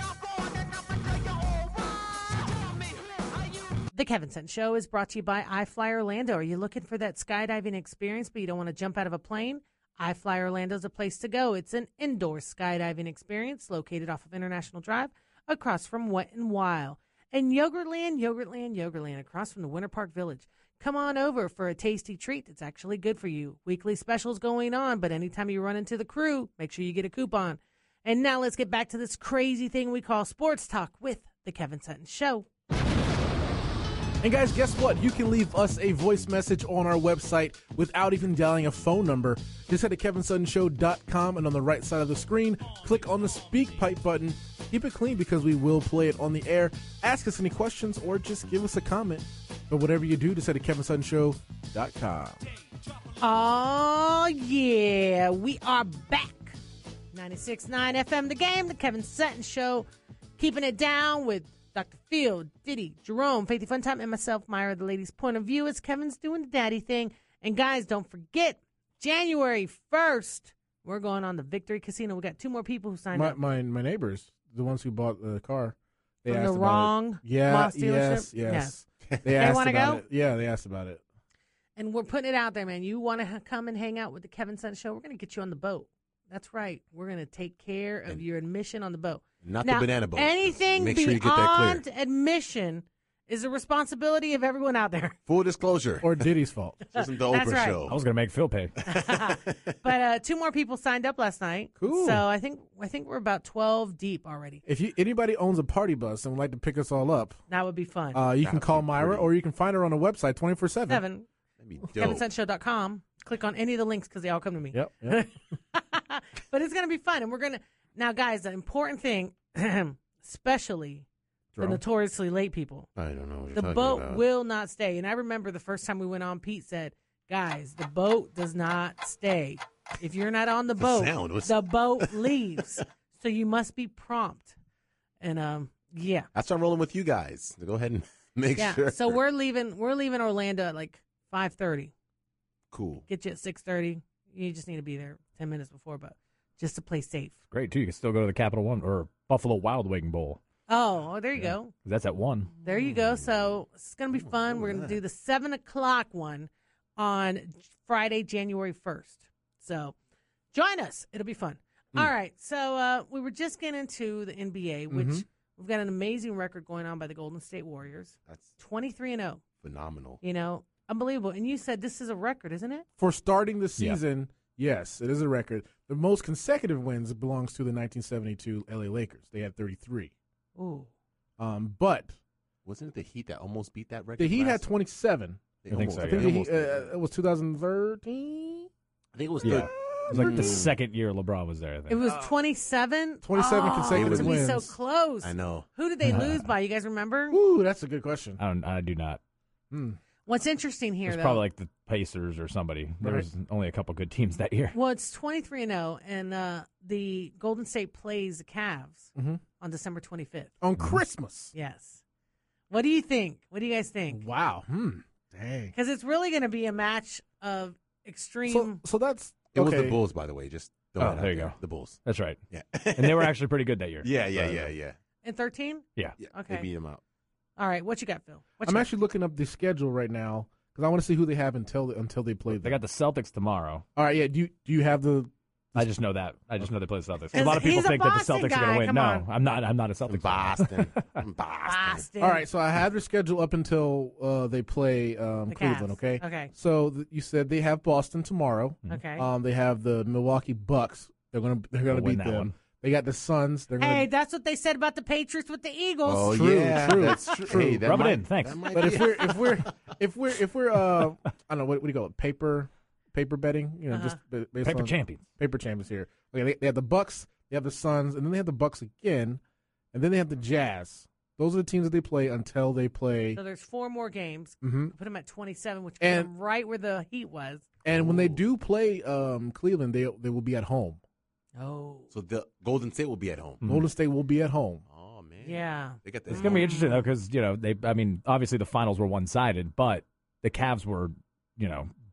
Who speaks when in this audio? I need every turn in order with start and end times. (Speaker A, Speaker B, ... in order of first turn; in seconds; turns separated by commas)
Speaker A: 3.9-32.5, Speaker B: 34.2-52.4, Speaker A: 53.2-56.6, Speaker A: 57.1-59.9, Speaker A: 60.4-73.4, Speaker B: 73.1-81.0, Speaker A: 76.3-78.8, Speaker A: 79.4-80.0, Speaker A: 81.8-95.2, Speaker C: 89.4-91.8, Speaker C: 95.3-96.2, Speaker B: 96.0-96.9, Speaker C: 96.9-98.0, Speaker A: 97.0-97.8, Speaker D: 97.9-98.8, Speaker A: 98.8-104.6, Speaker C: 98.9-99.5, Speaker B: 101.8-102.2, Speaker B: 104.7-107.4, Speaker A: 107.5-108.2, Speaker B: 108.1-111.0, Speaker C: 108.4-109.3, Speaker A: 110.9-111.3, Speaker C: 111.6-112.3, Speaker A: 112.0-121.1, Speaker B: 114.7-115.2, Speaker B: 121.5-121.8, Speaker A: 121.6-122.9, Speaker C: 123.0-124.2, Speaker A: 123.5-134.6, Speaker C: 130.8-132.3, Speaker A: 135.2-136.3, Speaker C: 136.3-139.2, Speaker A: 138.6-141.9, Speaker C: 142.7-143.1, Speaker A: 143.1-147.3, Speaker D: 147.5-150.4, Speaker A: 150.7-151.7, Speaker D: 151.4-152.5, Speaker A: 152.6-159.9, Speaker C: 152.8-153.5, Speaker C: 154.2-155.0, Speaker A: 160.5-169.4, Speaker B: 164.9-165.2, Speaker C: 169.6-170.2, Speaker A: 170.2-172.8, Speaker B: 173.0-180.1, Speaker A: 180.6-180.9, Speaker B: 181.4-182.2, Speaker C: 182.7-184.7, Speaker B: 184.2-188.7, Speaker C: 185.6-186.9, Speaker D: 185.7-186.4, Speaker C: 189.1-190.7, Speaker D: 189.4-192.0, Speaker B: 190.1-190.7, Speaker A: 191.9-197.4, Speaker B: 193.2-194.7, Speaker C: 193.9-194.4, Speaker C: 195.2-195.7, Speaker B: 196.1-196.4, Speaker B: 197.3-198.4, Speaker D: 198.4-199.2, Speaker B: 199.7-200.0, Speaker A: 200.3-201.4, Speaker D: 201.1-204.8, Speaker B: 203.0-203.3, Speaker A: 204.7-210.5, Speaker B: 209.2-209.4, Speaker B: 210.6-211.5, Speaker A: 211.5-212.0, Speaker A: 212.7-214.2, Speaker B: 214.1-215.8, Speaker A: 215.8-218.8, Speaker B: 218.5-220.0, Speaker C: 219.6-222.0, Speaker D: 221.0-222.4, Speaker C: 222.5-223.3, Speaker D: 222.9-224.6, Speaker C: 224.0-225.0, Speaker B: 224.3-224.7, Speaker A: 225.2-226.7, Speaker C: 226.2-227.0, Speaker A: 227.6-228.9, Speaker B: 228.6-232.8, Speaker D: 232.6-233.8, Speaker B: 234.0-235.9, Speaker D: 235.8-241.1, Speaker A: 237.3-239.3, Speaker C: 240.1-242.1, Speaker A: 241.6-242.4, Speaker B: 242.2-254.1, Speaker A: 245.5-246.5, Speaker A: 248.9-249.3, Speaker D: 251.9-252.5, Speaker A: 253.8-256.4, Speaker C: 256.1-259.8, Speaker B: 256.2-257.9, Speaker D: 257.8-258.7, Speaker B: 258.7-269.4, Speaker A: 263.9-264.2, Speaker D: 264.6-265.2, Speaker B: 269.9-273.4, Speaker A: 273.4-277.7, Speaker B: 274.6-274.9, Speaker B: 276.0-276.3, Speaker B: 277.9-281.0, Speaker C: 277.9-278.4, Speaker A: 281.6-282.1, Speaker C: 282.1-283.6, Speaker B: 283.6-284.8, Speaker C: 284.9-286.7, Speaker A: 285.4-287.1, Speaker D: 286.3-291.9